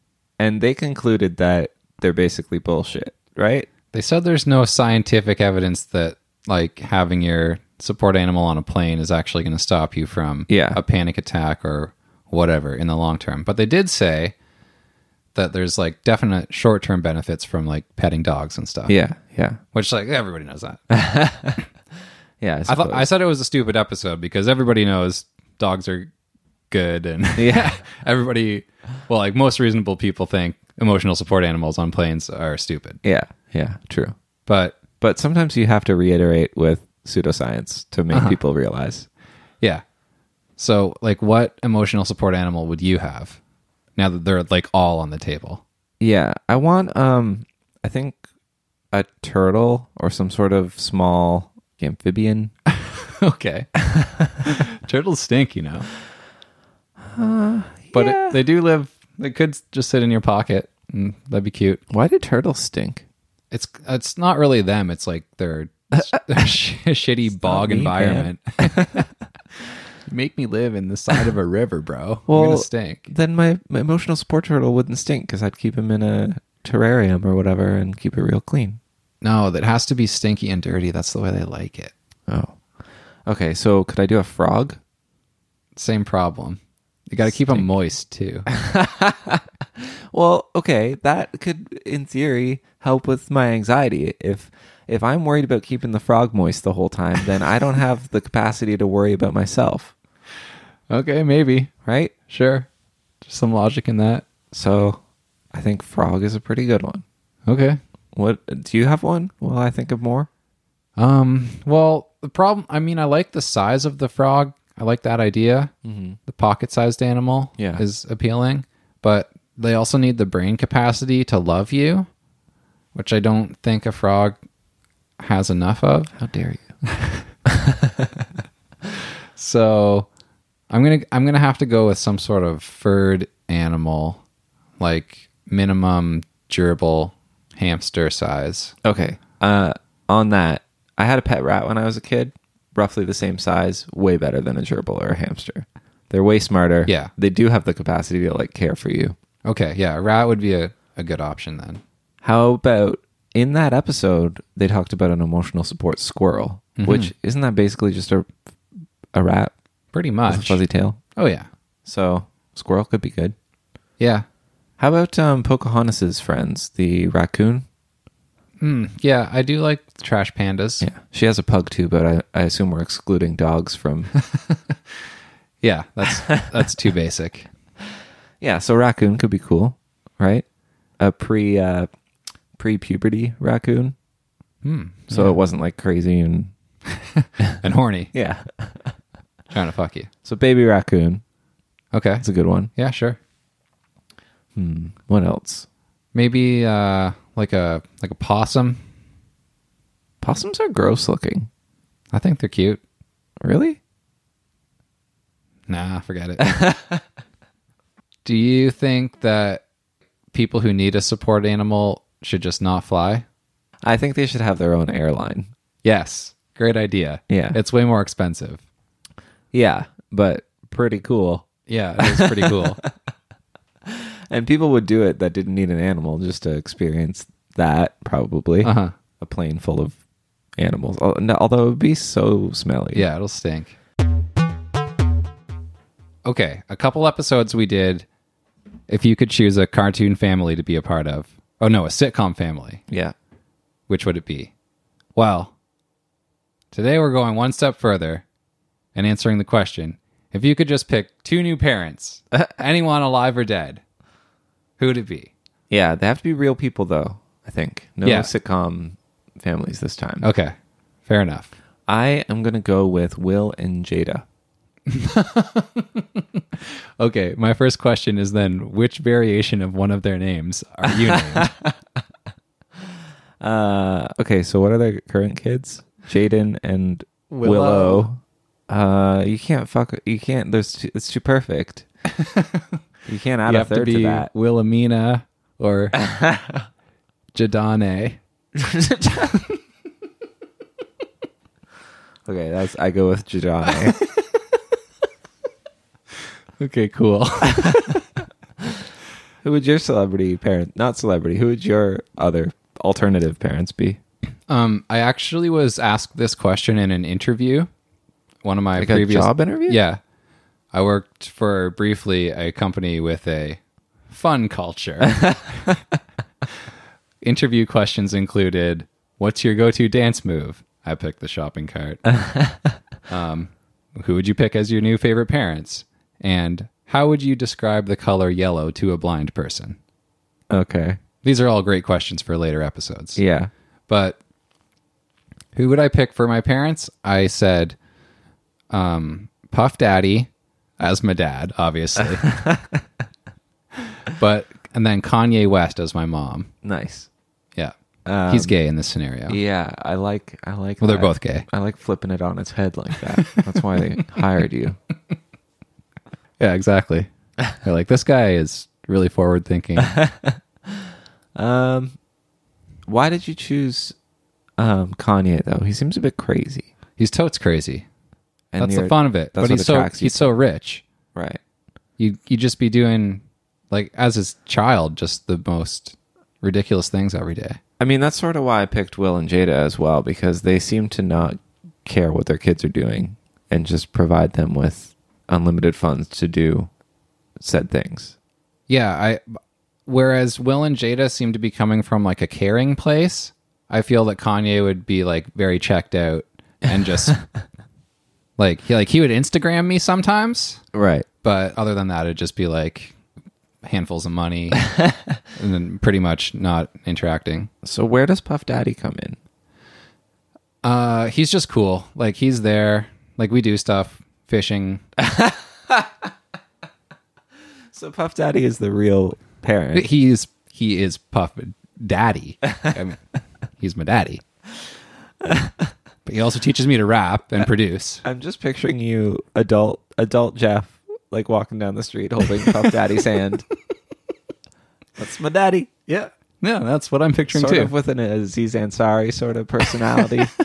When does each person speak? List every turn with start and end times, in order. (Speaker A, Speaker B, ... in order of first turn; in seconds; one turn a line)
Speaker A: 0.4-3.7
Speaker B: 3.9-14.3
Speaker A: 10.5-10.8
Speaker B: 15.3-18.9
Speaker A: 18.9-19.6
Speaker B: 19.7-20.8
Speaker A: 20.9-21.6
Speaker A: 22.4-23.1
Speaker B: 22.6-26.1
Speaker B: 26.7-33.0
Speaker A: 27.4-27.8
Speaker A: 33.0-34.1
Speaker B: 34.5-34.8
Speaker A: 35.0-39.1
Speaker B: 38.1-38.4
Speaker B: 40.6-43.4
Speaker B: 44.0-45.6
Speaker A: 46.0-48.2
Speaker A: 48.9-52.5
Speaker B: 52.8-53.8
Speaker B: 54.4-55.9
Speaker A: 57.1-58.4
Speaker B: 57.9-61.8
Speaker A: 61.9-63.0
Speaker B: 63.5-69.0
Speaker A: 66.0-66.5
Speaker A: 67.3-69.1
Speaker B: 70.0-73.1
Speaker A: 72.3-78.8
Speaker B: 79.2-81.9
Speaker A: 82.3-82.6
Speaker A: 83.2-84.8
Speaker B: 85.8-88.5
Speaker A: 87.2-87.7
Speaker A: 88.5-99.9
Speaker B: 100.9-101.7
Speaker A: 101.8-102.1
Speaker B: 102.3-102.7
Speaker B: 103.2-104.2
Speaker A: 104.5-105.0
Speaker A: 105.5-107.0
Speaker B: 107.5-107.8
Speaker A: 108.1-110.3
Speaker B: 111.0-115.7
Speaker A: 115.8-116.2
Speaker B: 116.3-122.1
Speaker A: 117.6-117.8
Speaker B: 122.9-124.3
Speaker B: 125.2-126.1
Speaker A: 126.2-126.7
Speaker B: 126.9-127.2
Speaker A: 127.5-128.2
Speaker B: 129.3-130.1
Speaker B: 130.7-134.2
Speaker B: 134.8-138.7
Speaker A: 138.8-149.1
Speaker B: 149.4-151.8
Speaker A: 152.2-158.3
Speaker B: 156.8-157.1
Speaker A: 159.1-159.5
Speaker B: 159.9-160.6
Speaker A: 160.3-161.0
Speaker B: 161.2-161.5
Speaker A: 161.8-163.3
Speaker B: 164.0-164.2
Speaker A: 164.8-167.6
Speaker B: 168.6-170.8
Speaker A: 170.8-174.1
Speaker B: 174.2-174.8
Speaker B: 175.6-177.5
Speaker A: 178.4-180.4
Speaker A: 181.0-181.9
Speaker A: 182.6-183.9
Speaker B: 184.6-185.4
Speaker A: 185.1-186.5
Speaker B: 187.0-188.1
Speaker A: 188.1-188.9
Speaker B: 189.5-190.1
Speaker A: 190.2-191.2
Speaker B: 191.9-192.2
Speaker A: 192.2-192.7
Speaker B: 192.8-193.2
Speaker A: 194.5-195.7
Speaker B: 196.1-198.8
Speaker A: 200.2-201.5
Speaker B: 202.1-202.8
Speaker A: 203.4-203.8
Speaker B: 205.7-206.5
Speaker A: 206.4-207.0
Speaker B: 208.2-209.6
Speaker B: 210.3-213.2
Speaker A: 213.8-215.5
Speaker B: 215.8-218.6
Speaker A: 217.3-217.6
Speaker A: 219.5-221.5
Speaker B: 221.7-222.8
Speaker A: 222.0-222.9
Speaker A: 223.8-230.0
Speaker B: 228.6-228.9
Speaker A: 230.6-233.1
Speaker B: 232.9-233.8
Speaker B: 236.2-238.1
Speaker B: 238.9-242.8
Speaker A: 242.9-243.1
Speaker B: 243.9-244.5
Speaker B: 245.2-245.5
Speaker B: 246.7-248.2
Speaker B: 248.9-253.8
Speaker B: 254.8-255.3
Speaker A: 255.7-260.3
Speaker B: 258.0-258.3
Speaker B: 260.2-260.5
Speaker B: 261.1-261.5
Speaker A: 261.9-264.2
Speaker B: 264.9-271.5
Speaker A: 271.0-271.7
Speaker A: 273.4-281.8
Speaker B: 277.3-278.1
Speaker B: 282.2-282.6
Speaker A: 283.1-284.3
Speaker B: 283.4-286.0
Speaker A: 286.1-286.6
Speaker B: 287.3-288.2
Speaker A: 288.5-289.4
Speaker A: 292.2-293.9
Speaker B: 293.9-294.4
Speaker B: 296.6-298.1
Speaker A: 299.4-304.0
Speaker B: 304.5-307.7
Speaker B: 308.4-310.0
Speaker A: 308.8-309.8
Speaker B: 310.7-315.6
Speaker B: 317.2-322.1
Speaker A: 322.1-322.7
Speaker B: 323.1-329.8
Speaker A: 330.5-331.0
Speaker B: 331.2-333.2
Speaker A: 333.1-333.5
Speaker B: 333.9-334.2
Speaker B: 335.5-337.8
Speaker B: 338.7-342.3
Speaker A: 342.2-342.8
Speaker B: 344.1-346.5
Speaker A: 346.6-347.1
Speaker A: 348.1-348.5
Speaker B: 348.3-349.4
Speaker A: 349.3-354.8
Speaker B: 350.8-351.4
Speaker B: 353.3-353.6
Speaker B: 356.4-360.0
Speaker A: 359.8-360.4
Speaker A: 361.4-361.9
Speaker A: 362.9-363.9
Speaker A: 364.6-366.7
Speaker B: 367.0-367.9
Speaker A: 368.5-370.3
Speaker B: 368.6-370.8
Speaker A: 371.1-371.4
Speaker B: 372.0-377.6
Speaker A: 377.8-386.7
Speaker A: 387.4-388.2
Speaker B: 388.7-389.2
Speaker B: 389.9-397.2
Speaker B: 398.4-400.6
Speaker A: 400.7-401.1
Speaker B: 401.2-402.9
Speaker B: 403.6-404.7
Speaker B: 405.3-407.5
Speaker A: 407.6-409.2
Speaker B: 410.6-414.8
Speaker A: 415.0-415.9
Speaker A: 417.7-419.9
Speaker B: 419.7-423.0
Speaker B: 423.6-424.2
Speaker A: 425.2-425.7
Speaker B: 426.1-428.0
Speaker A: 428.0-433.4
Speaker B: 432.4-432.7
Speaker A: 435.0-435.7
Speaker B: 435.9-437.7
Speaker A: 437.3-440.3